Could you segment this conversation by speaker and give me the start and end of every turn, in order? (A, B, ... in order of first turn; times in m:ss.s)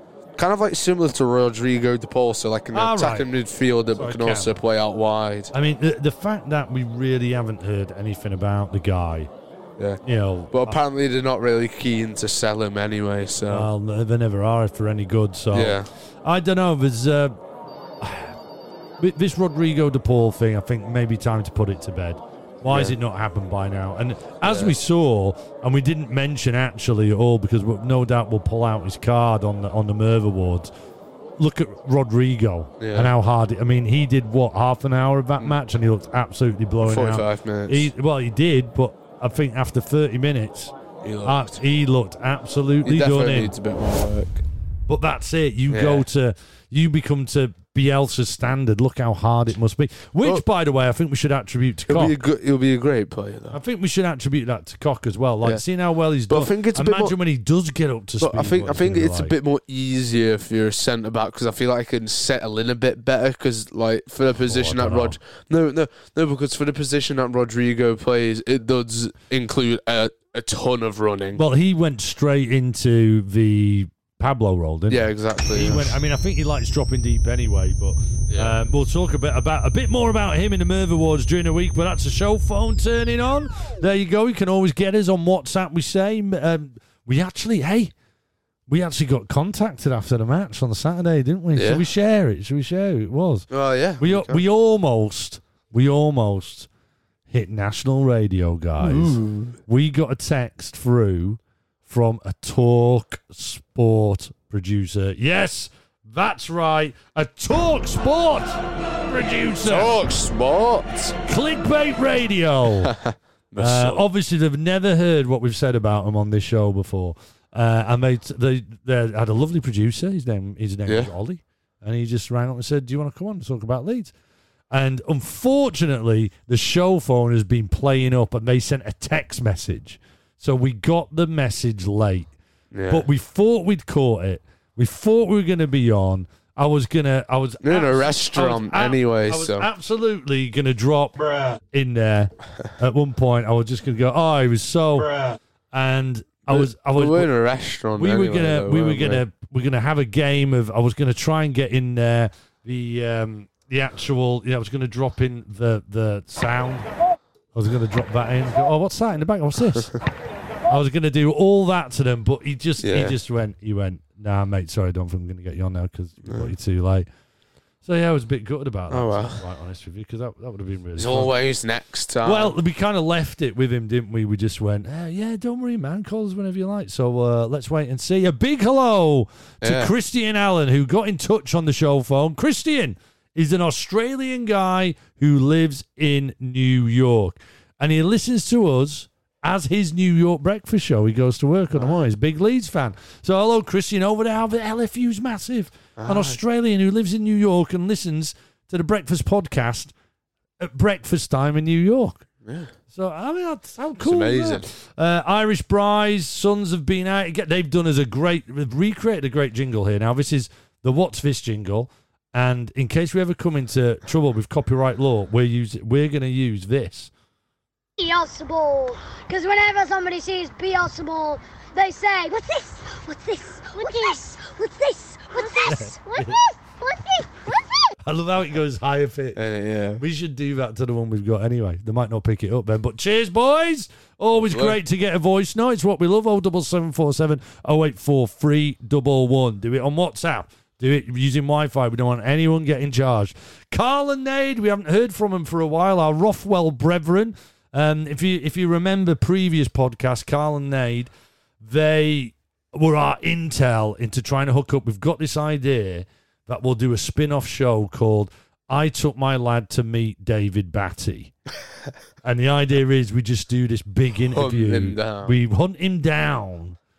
0:00.4-0:05.5 A
0:02.7-0:03.3 B
0:03.9-0:04.6 B
0:05.5-0:09.3 B
0:10.0-0:10.8 B
0:10.5-0:13.7 A
0:13.5-0:17.4 B
0:15.5-0:15.9 A
0:18.0-0:18.3 B
0:19.0-0:30.7 B
0:22.7-0:23.0 A
0:24.4-0:24.8 A
0:31.4-0:40.7 B
0:32.8-0:33.1 A
0:36.8-0:37.9 A
0:41.0-0:41.6 A
0:41.2-0:43.5 B
0:42.8-0:44.4 A
0:44.9-0:52.2 B
0:45.7-0:46.1 A
0:51.9-0:53.6 A
0:53.5-0:59.4 B
0:56.3-0:57.2 A
0:58.2-1:11.4 A
1:04.4-1:05.2 B
1:11.4-1:27.9 B
1:14.9-1:16.0 A
1:18.3-1:18.6 A
1:28.7-1:33.5 B
1:31.6-1:31.8 A
1:33.5-1:34.4 A
1:34.0-1:36.7 B
1:37.3-1:50.0 B
1:38.8-1:39.6 A
1:49.6-1:51.2 A
1:51.3-1:52.9 B
1:52.8-1:54.0 A
1:53.6-2:04.1 B
2:00.9-2:01.1 A
2:04.7-2:12.3 B
2:12.7-2:13.1 A
2:12.9-2:27.3 B
2:17.6-2:19.7 A
2:26.5-2:29.2 A
2:28.0-2:36.9 B
2:37.5-2:40.0 B
2:40.7-2:47.1 B
2:42.8-2:43.2 A
2:46.3-2:46.5 A
2:47.8-2:51.3 B
2:48.9-2:49.4 A
2:51.0-2:52.6 A
2:52.2-3:19.9 B
2:59.6-2:59.9 A
3:11.8-3:12.0 A
3:16.0-3:16.4 A
3:20.6-3:22.3 B
3:22.4-3:22.7 A
3:22.9-3:37.1 B
3:24.0-3:24.7 A
3:38.0-3:47.8 C
3:45.6-3:46.4 B
3:48.0-3:49.4 B
3:49.4-3:50.0 A
3:50.0-4:11.1 B
3:54.3-3:54.8 A
4:11.6-4:21.3 B
4:22.2-4:26.8 B
4:24.3-4:25.4 A